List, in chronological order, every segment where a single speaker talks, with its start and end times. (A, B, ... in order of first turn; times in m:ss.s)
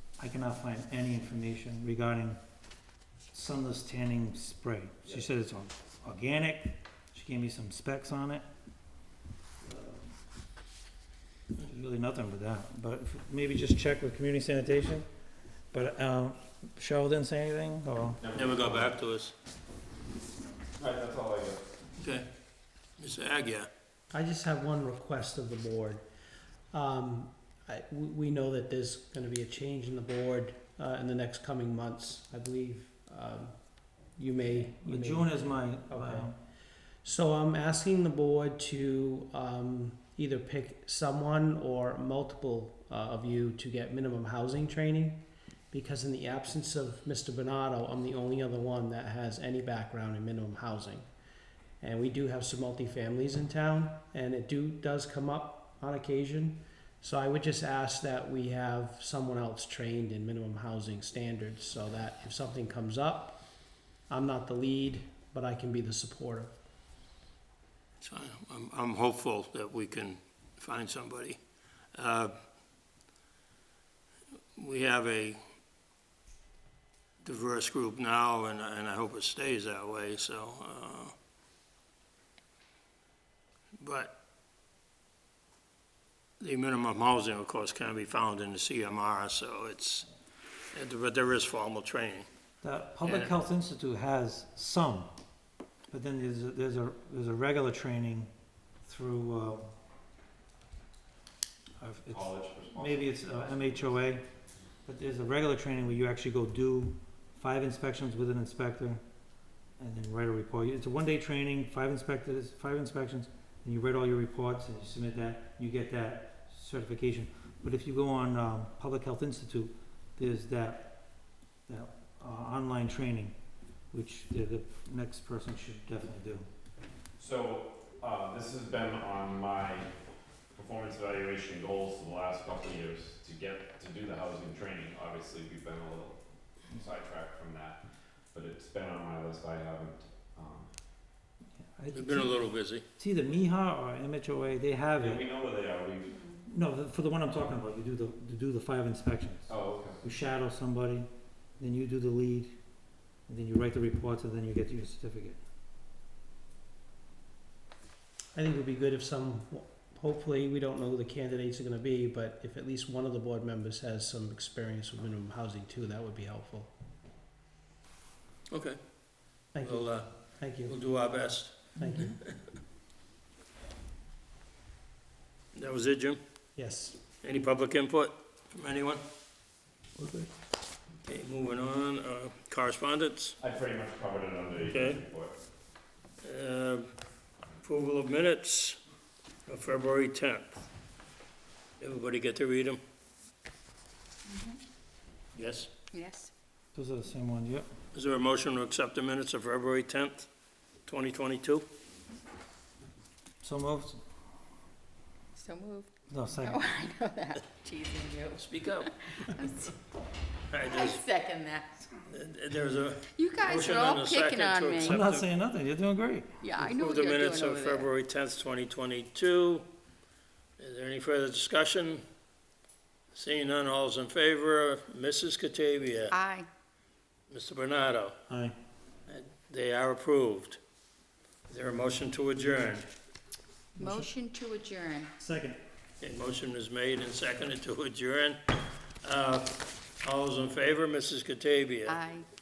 0:00.2-0:02.4 A
0:03.3-0:08.4 A
0:09.6-0:10.1 A
0:11.6-0:15.1 A
0:15.7-0:18.2 A
0:18.2-0:19.0 B
0:18.3-0:19.3 C
0:20.8-0:21.6 B
0:22.0-0:22.3 C
0:23.0-0:23.7 C
0:24.1-0:26.0 D
0:26.7-0:36.3 D
0:34.8-0:36.4 A
0:37.0-0:51.0 D
0:51.8-1:03.4 D
1:04.1-1:06.6 D
1:08.0-1:11.4 C
1:11.9-1:12.4 C
1:14.5-1:15.4 C
1:17.2-1:21.1 C
1:23.8-1:24.1 C
1:26.4-1:30.1 C
1:30.7-1:32.3 C
1:32.6-1:35.1 A
1:33.0-1:33.3 C
1:35.9-1:38.3 A
1:38.8-1:39.7 A
1:41.8-1:44.2 A
1:42.1-1:43.1 B
1:44.8-1:49.0 A
1:49.8-2:01.0 A
2:01.7-2:03.3 A
2:03.9-2:06.5 A
2:07.2-2:09.9 B
2:10.5-2:17.8 B
2:18.3-2:20.7 B
2:21.8-2:25.2 A
2:21.9-2:22.8 C
2:25.0-2:26.2 B
2:26.4-2:31.1 A
2:29.5-2:30.0 B
2:31.6-2:32.6 A
2:33.3-2:35.4 A
2:38.3-2:46.7 D
2:48.5-2:48.8 C
2:49.5-2:50.8 D
2:49.6-2:50.1 C
2:50.6-2:52.3 C
2:51.8-2:52.2 D
2:55.5-2:56.2 C
2:56.6-2:57.0 D
2:57.1-2:59.0 C
3:00.0-3:00.3 A
3:01.0-3:03.4 C
3:03.4-3:05.3 B
3:04.7-3:05.0 C
3:06.2-3:06.9 C
3:07.6-3:08.8 C
3:09.5-3:10.6 C
3:11.8-3:12.8 C
3:14.3-3:14.6 E
3:15.3-3:15.7 C
3:15.9-3:16.3 E
3:16.7-3:17.7 A
3:17.9-3:20.3 C
3:20.8-3:21.6 C
3:23.4-3:24.0 A
3:25.4-3:29.7 E
3:26.1-3:26.6 A
3:28.4-3:29.3 C
3:30.5-3:31.0 C
3:30.6-3:31.8 E
3:32.1-3:35.2 C
3:33.1-3:35.0 E
3:34.8-3:36.3 A
3:36.4-3:37.9 E
3:36.6-3:39.7 C
3:40.6-3:42.0 C
3:43.1-3:46.2 C
3:46.1-3:46.5 E
3:47.3-3:48.2 C
3:48.3-3:48.6 A
3:49.1-3:50.6 C
3:51.5-3:52.9 C
3:53.8-3:55.1 E
3:53.8-3:54.0 A
3:55.2-3:55.6 A
3:56.0-4:02.0 C
4:01.8-4:02.2 E